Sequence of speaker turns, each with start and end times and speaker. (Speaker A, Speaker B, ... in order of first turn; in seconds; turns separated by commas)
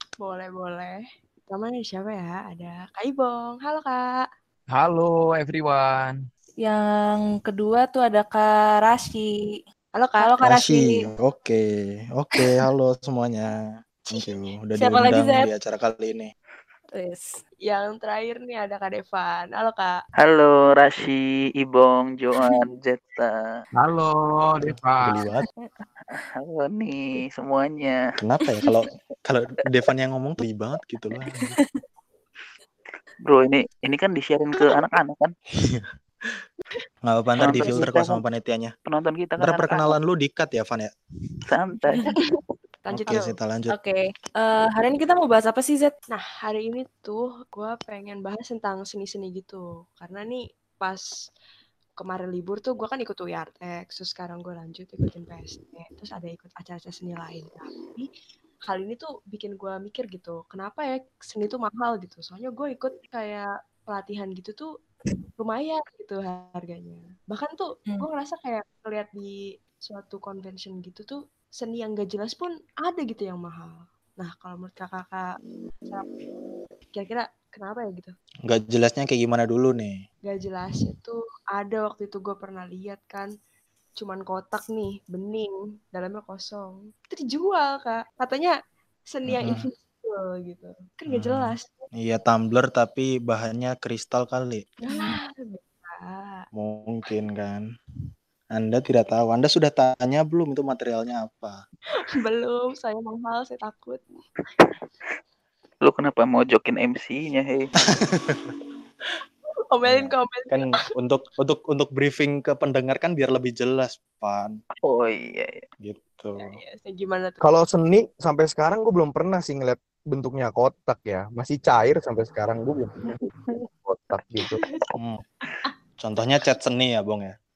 Speaker A: 0.2-4.3, Speaker B: 4.7-6.2, Speaker C: 6.6-9.6, Speaker A: 9.9-10.4, Speaker C: 10.2-11.0, Speaker D: 10.4-16.3, Speaker C: 14.8-15.5, Speaker C: 16.9-17.4, Speaker A: 17.7-20.0, Speaker E: 20.2-23.4, Speaker B: 23.8-25.2, Speaker D: 25.0-25.5, Speaker E: 26.1-28.0, Speaker D: 28.2-31.6, Speaker E: 33.3-35.3, Speaker D: 35.6-36.3, Speaker D: 37.0-38.7, Speaker E: 37.4-38.2, Speaker E: 38.9-40.0, Speaker D: 39.4-40.9, Speaker E: 41.5-42.2, Speaker A: 42.1-43.4, Speaker D: 42.9-43.7, Speaker C: 43.7-45.9, Speaker A: 46.1-51.0, Speaker A: 52.0-58.1, Speaker A: 58.7-64.7, Speaker A: 65.4-75.3, Speaker A: 75.9-76.2, Speaker A: 76.9-78.1, Speaker D: 78.5-80.0, Speaker A: 80.3-83.3, Speaker A: 84.0-88.5, Speaker A: 89.1-91.9, Speaker D: 89.3-89.6, Speaker D: 91.1-94.7, Speaker A: 94.8-96.5, Speaker C: 94.9-95.2, Speaker D: 96.5-97.6, Speaker D: 98.5-101.6, Speaker A: 102.2-104.0, Speaker E: 105.8-107.7, Speaker D: 107.9-108.5, Speaker A: 109.7-110.8, Speaker D: 109.9-114.6, Speaker E: 114.8-115.6, Speaker D: 115.8-116.6, Speaker A: 116.4-117.4, Speaker B: 117.4-124.6, Speaker A: 124.4-124.8, Speaker D: 126.0-127.3